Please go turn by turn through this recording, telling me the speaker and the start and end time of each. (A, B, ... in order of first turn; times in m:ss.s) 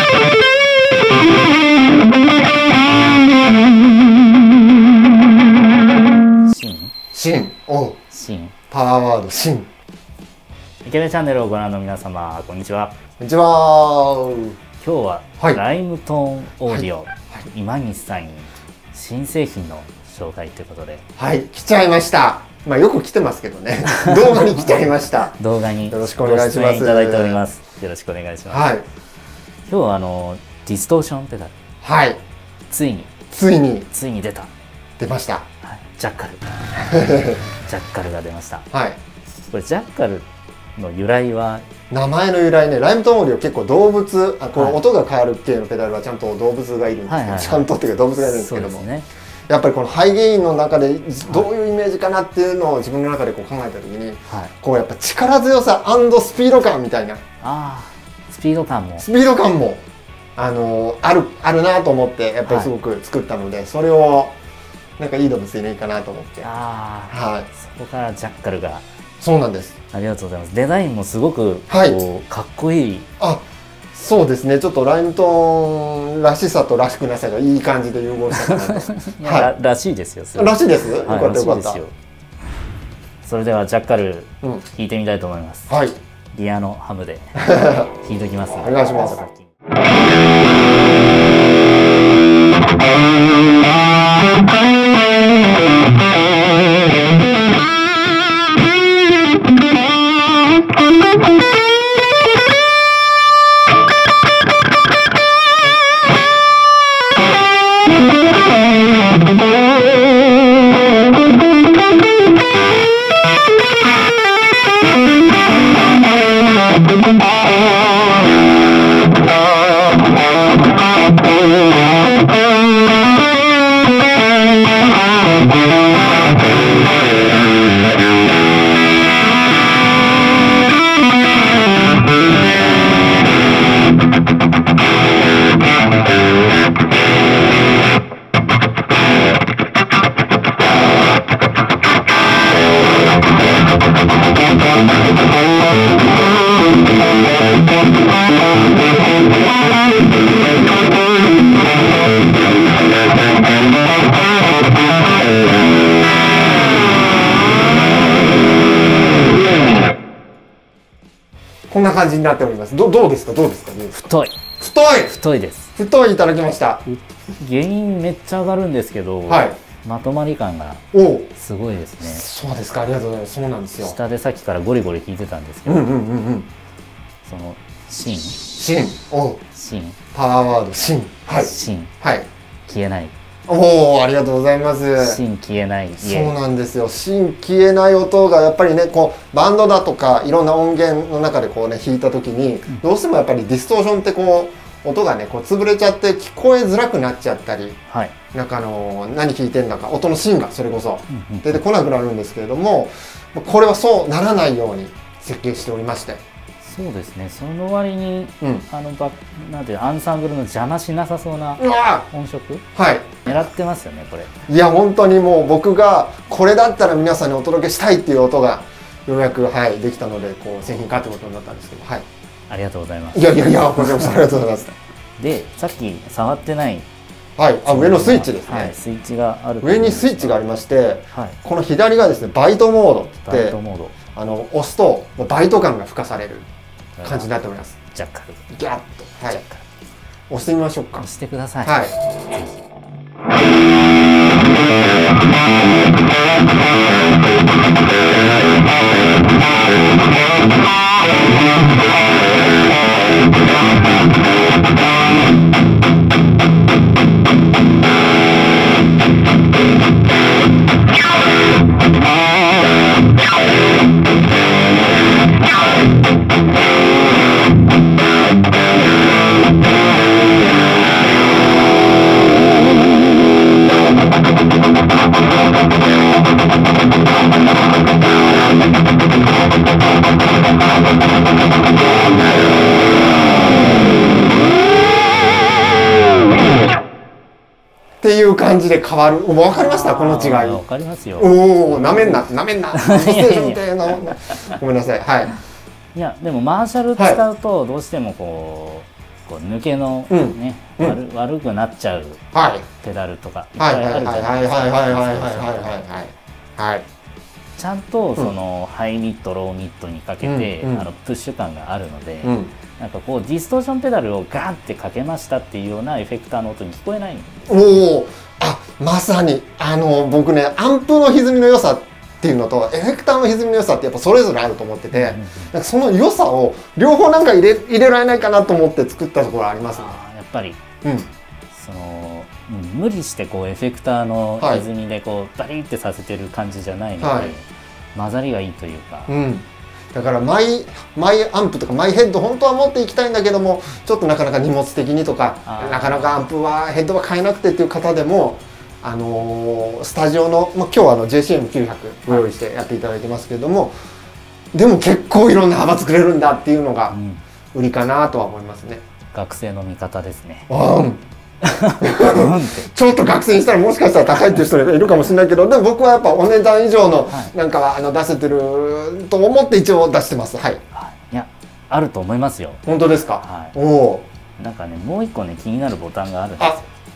0:06.4-0:06.9 A
0:07.1-0:08.0 B
0:08.1-0:08.5 A
0:08.7-0:09.7 B
0:10.8-0:13.0 A
0:13.2-0:14.6 B
0:14.8-0:21.0 A
0:16.7-0:17.4 B
0:21.2-0:25.4 B
0:23.9-0:24.7 A
0:25.4-0:28.7 A
0:25.9-0:27.4 B
0:28.5-0:28.8 B
0:29.7-0:31.5 A
0:31.8-0:32.2 B
0:32.7-0:33.1 A
0:33.3-0:33.9 B
0:33.9-0:34.5 A
0:35.0-0:35.4 B
0:35.6-0:36.6 A
0:36.8-0:37.5 B
0:37.6-0:38.6 A
0:38.7-0:39.0 B
0:39.5-0:41.6 A
0:41.9-0:48.9 B
0:44.5-0:44.8 A
0:47.1-0:49.1 A
0:49.5-0:57.2 B
0:57.4-0:59.0 A
0:59.0-0:59.8 B
1:00.4-1:04.4 B
1:02.4-1:02.7 A
1:05.0-1:06.5 B
1:06.4-1:08.8 A
1:07.1-1:07.5 B
1:09.2-1:09.7 B
1:09.9-1:13.1 A
1:11.7-1:12.0 B
1:13.2-1:19.5 B
1:18.4-1:21.9 A
1:20.3-1:21.8 B
1:23.2-1:25.7 A
1:25.7-1:26.0 B
1:26.3-1:29.5 A
1:27.4-1:27.9 B
1:28.5-1:29.2 B
2:41.7-2:44.0 B
2:43.9-2:44.4 A
2:44.6-2:45.1 B
2:45.0-2:45.7 A
2:45.8-2:46.9 B
2:46.9-2:52.2 A
2:49.3-2:49.6 B
2:50.9-2:51.3 B
2:52.0-2:54.0 B
2:53.8-2:55.9 A
2:55.6-2:56.5 B
2:57.2-2:58.4 A
2:58.6-2:59.4 B
2:59.5-3:00.0 A
3:00.1-3:02.3 B
3:01.4-3:01.9 A
3:02.7-3:03.1 A
3:03.5-3:05.2 B
3:05.0-3:06.4 A
3:06.0-3:17.8 B
3:17.9-3:18.1 A
3:18.3-3:26.2 B
3:21.1-3:21.6 A
3:26.6-3:32.6 A
3:28.4-3:28.6 B
3:31.6-3:32.1 B
3:32.7-3:33.4 B
3:33.2-3:34.3 A
3:34.4-3:42.0 B
3:42.5-3:44.1 A
3:43.1-3:44.7 B
3:45.2-3:46.8 A
3:47.4-3:48.8 B
3:47.6-3:50.4 A
3:49.6-3:53.6 B
3:51.1-3:51.4 A
3:53.2-3:53.9 A
3:54.1-3:56.5 B
3:57.0-3:57.3 A
3:57.0-3:57.8 B
3:57.9-3:58.4 A
3:58.5-3:59.4 B
3:59.3-3:59.6 A
4:00.3-4:01.1 B
4:01.0-4:02.6 A
4:01.6-4:01.9 B
4:48.0-4:50.6 B
4:49.4-4:54.6 A
4:51.2-4:55.4 B
4:55.9-5:02.2 A
5:00.1-5:01.0 B
5:02.3-5:02.7 B
5:02.8-5:05.8 A
5:03.6-5:06.8 B
5:07.6-5:17.8 A
5:10.2-5:10.9 B
5:12.2-5:12.5 B
5:17.5-5:30.0 B
5:24.9-5:25.5 A
5:29.7-5:30.6 A
5:30.8-5:31.1 B
5:31.5-5:39.1 A
5:34.4-5:34.6 B
5:37.0-5:37.3 B
5:39.1-5:53.7 B
5:45.4-5:46.2 A
5:54.5-5:57.0 B
5:56.9-5:57.2 A
5:57.5-5:58.8 B
5:59.1-6:00.5 A
6:00.5-6:01.0 B
6:01.4-6:02.7 A
6:01.8-6:10.6 B
6:07.1-6:07.3 A
6:10.7-6:12.6 A
6:12.6-6:14.1 B
6:13.2-6:13.6 A
6:14.4-6:16.6 A